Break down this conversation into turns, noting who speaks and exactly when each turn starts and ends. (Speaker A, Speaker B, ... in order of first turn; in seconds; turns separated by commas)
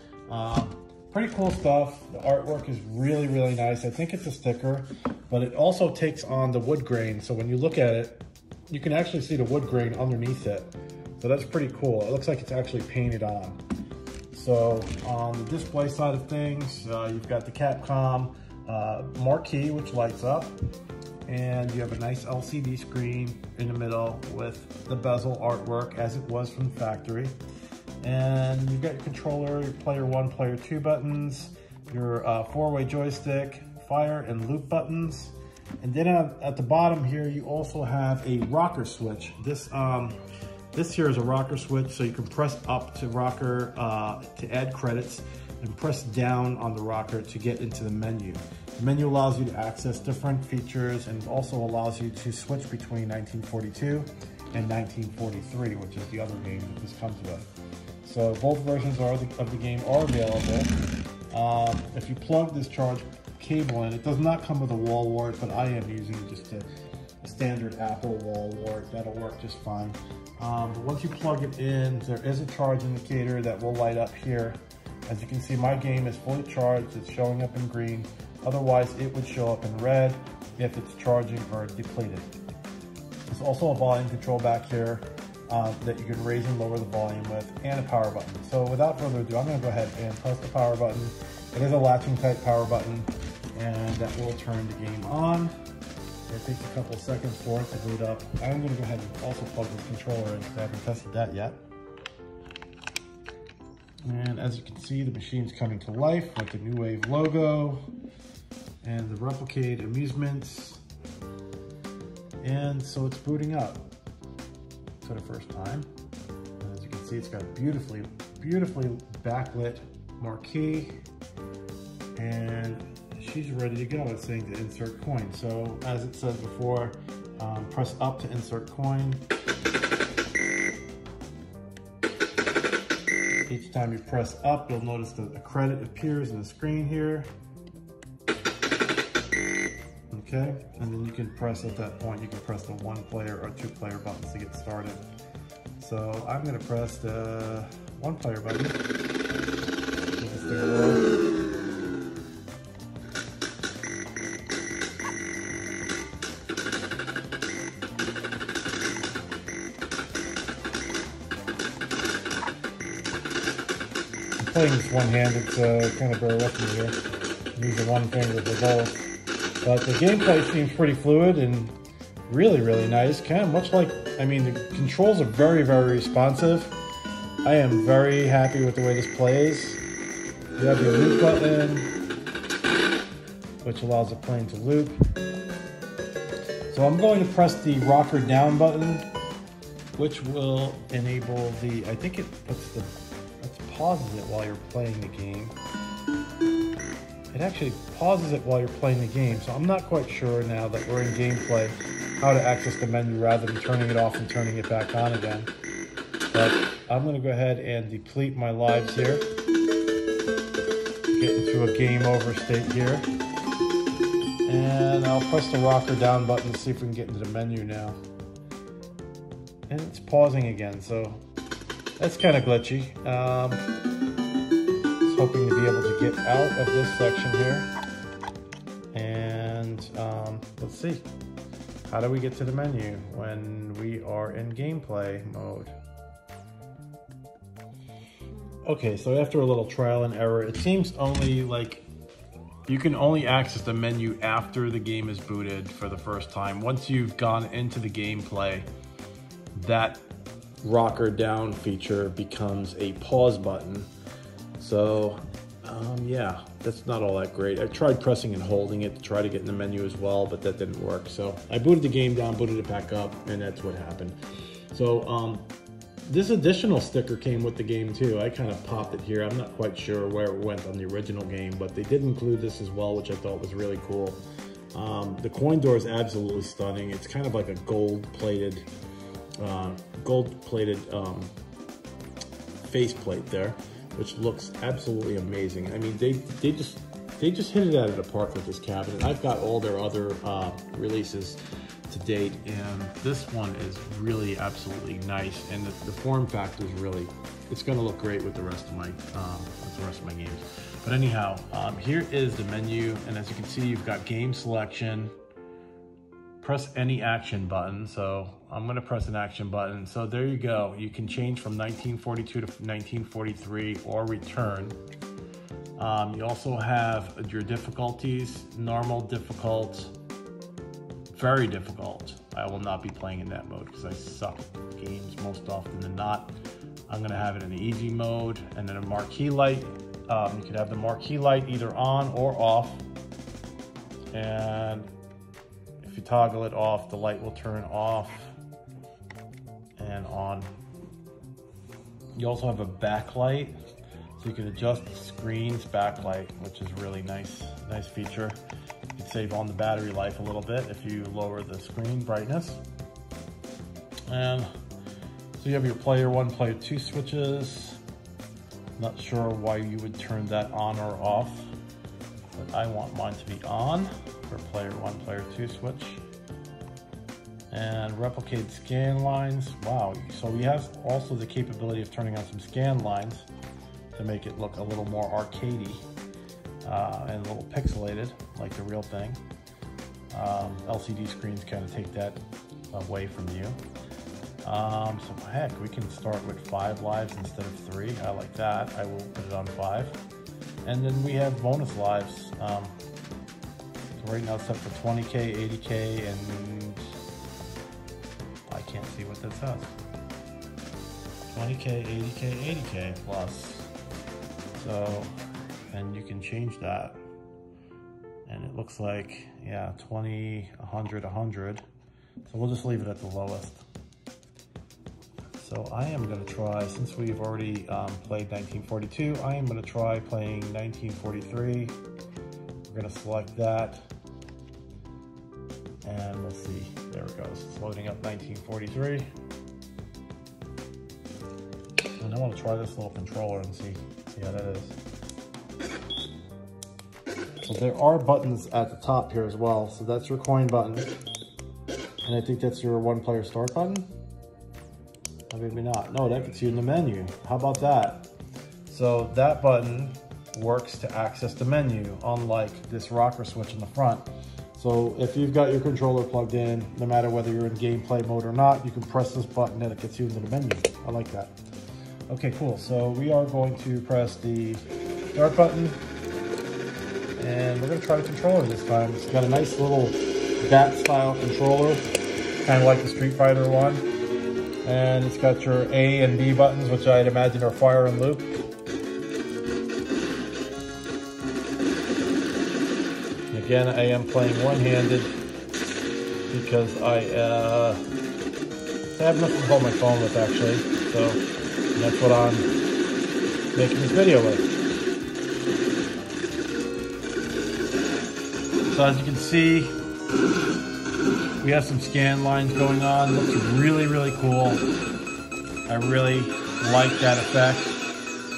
Speaker A: 0.3-13.6, Speaker A: 14.3-20.6, Speaker A: 21.2-27.3, Speaker A: 28.0-40.2, Speaker A: 40.7-57.5, Speaker A: 58.0-60.7, Speaker A: 61.3-66.7, Speaker A: 67.2-82.3, Speaker A: 83.3-95.5, Speaker A: 96.3-101.6, Speaker A: 104.0-107.8, Speaker A: 108.8-110.8, Speaker A: 112.4-113.9, Speaker A: 115.0-115.9, Speaker A: 116.6-121.0, Speaker A: 122.1-129.2, Speaker A: 133.5-137.3, Speaker A: 140.1-145.0, Speaker A: 145.8-148.8, Speaker A: 150.2-151.1, Speaker A: 164.4-167.0, Speaker A: 167.5-169.1, Speaker A: 169.6-171.7, Speaker A: 172.3-176.7, Speaker A: 177.4-179.8, Speaker A: 180.6-181.9, Speaker A: 183.6-185.0, Speaker A: 186.7-189.1, Speaker A: 189.9-195.6, Speaker A: 197.3-205.5, Speaker A: 206.3-209.3, Speaker A: 211.1-213.1, Speaker A: 214.4-218.0, Speaker A: 219.7-221.2, Speaker A: 222.0-223.6, Speaker A: 225.0-227.7, Speaker A: 228.9-231.1, Speaker A: 231.9-235.8, Speaker A: 238.6-241.8, Speaker A: 242.7-248.7, Speaker A: 249.5-250.0, Speaker A: 250.6-253.9, Speaker A: 254.6-264.2, Speaker A: 264.7-265.5, Speaker A: 266.1-274.2, Speaker A: 274.7-278.7, Speaker A: 279.4-281.3, Speaker A: 282.6-305.1, Speaker A: 306.4-314.8, Speaker A: 315.8-319.9, Speaker A: 321.1-326.3, Speaker A: 326.9-332.8, Speaker A: 334.1-334.9, Speaker A: 335.8-338.4, Speaker A: 339.8-340.5, Speaker A: 342.1-343.6, Speaker A: 344.2-348.4, Speaker A: 348.9-352.6, Speaker A: 354.1-354.5, Speaker A: 355.4-357.8, Speaker A: 358.8-361.5, Speaker A: 362.3-366.0, Speaker A: 367.5-373.3, Speaker A: 373.9-375.8, Speaker A: 376.6-379.2, Speaker A: 380.1-382.2, Speaker A: 382.7-383.6, Speaker A: 384.4-390.0, Speaker A: 390.6-392.8, Speaker A: 393.9-396.9, Speaker A: 398.5-399.7, Speaker A: 401.3-403.7, Speaker A: 404.6-405.1, Speaker A: 405.7-407.0, Speaker A: 408.2-411.6, Speaker A: 412.3-413.6, Speaker A: 415.4-421.8, Speaker A: 422.7-423.8, Speaker A: 425.8-429.1, Speaker A: 432.0-434.8, Speaker A: 437.4-440.9, Speaker A: 442.0-443.9, Speaker A: 445.3-448.1, Speaker A: 448.7-461.3, Speaker A: 462.1-465.8, Speaker A: 467.2-471.9, Speaker A: 472.4-473.9, Speaker A: 474.6-478.4, Speaker A: 483.3-485.1, Speaker A: 486.3-487.8, Speaker A: 488.9-491.2, Speaker A: 491.7-492.5, Speaker A: 493.5-494.5, Speaker A: 498.7-499.8, Speaker A: 501.4-504.7, Speaker A: 505.7-507.8